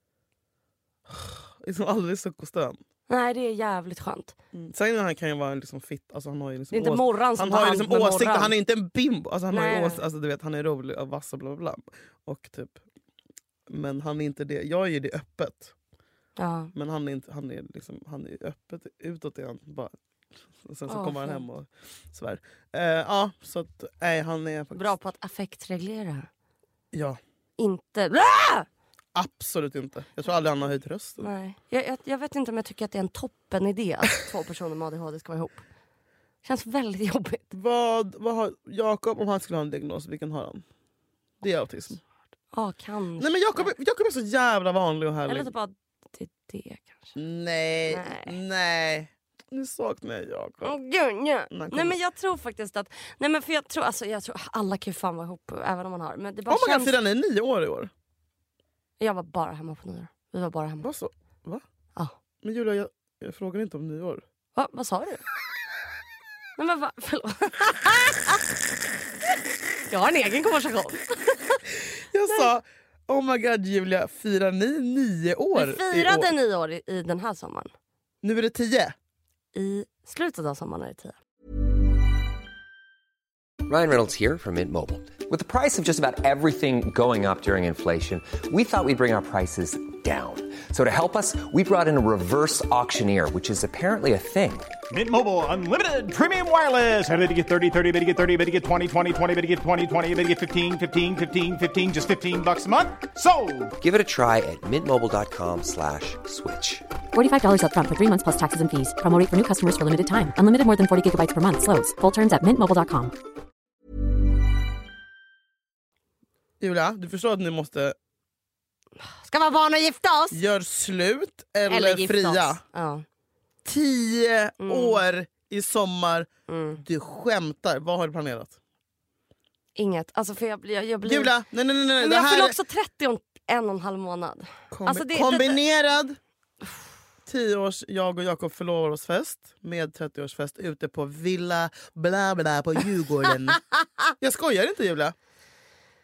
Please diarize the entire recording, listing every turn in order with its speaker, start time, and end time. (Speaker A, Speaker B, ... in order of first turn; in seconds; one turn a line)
Speaker A: 1.1-2.8
Speaker B: 3.1-4.3
Speaker A: 4.5-12.8
Speaker B: 6.7-8.5
Speaker B: 9.5-10.0
Speaker A: 13.7-15.7
Speaker B: 16.4-16.7
Speaker A: 16.7-19.9
Speaker A: 20.6-24.9
Speaker B: 20.9-21.4
Speaker B: 24.7-26.3
Speaker A: 26.9-27.2
Speaker B: 27.6-28.7
Speaker A: 29.1-31.3
Speaker B: 31.2-35.6
Speaker B: 36.4-37.5
Speaker A: 37.5-40.6
Speaker A: 41.4-42.0
Speaker B: 42.5-43.7
Speaker A: 43.2-45.5
Speaker B: 45.3-47.1
Speaker A: 47.1-50.8
Speaker B: 47.9-48.4
Speaker B: 50.6-57.0
Speaker A: 51.5-52.0
Speaker A: 56.5-57.9
Speaker B: 59.0-60.9
Speaker A: 60.8-61.6
Speaker A: 62.4-64.2
Speaker B: 64.5-65.2
Speaker B: 66.6-68.4
Speaker B: 69.9-71.6
Speaker A: 71.7-76.3
Speaker B: 75.5-77.7
Speaker A: 78.2-78.9
Speaker B: 79.5-81.2
Speaker C: 83.7-94.8
Speaker D: 94.9-103.8
Speaker C: 103.8-106.8
Speaker E: 107.1-113.1
Speaker A: 116.6-118.0
Speaker B: 119.0-120.4
Speaker A: 120.3-122.6
Speaker B: 121.7-123.0
Speaker A: 123.6-126.3
Speaker B: 124.6-125.0
Speaker B: 126.5-126.8
Speaker A: 126.8-128.6
Speaker B: 129.8-131.3
Speaker A: 131.0-132.6
Speaker B: 132.0-135.6
Speaker A: 134.7-136.2
Speaker A: 137.2-143.6
Speaker A: 144.2-145.1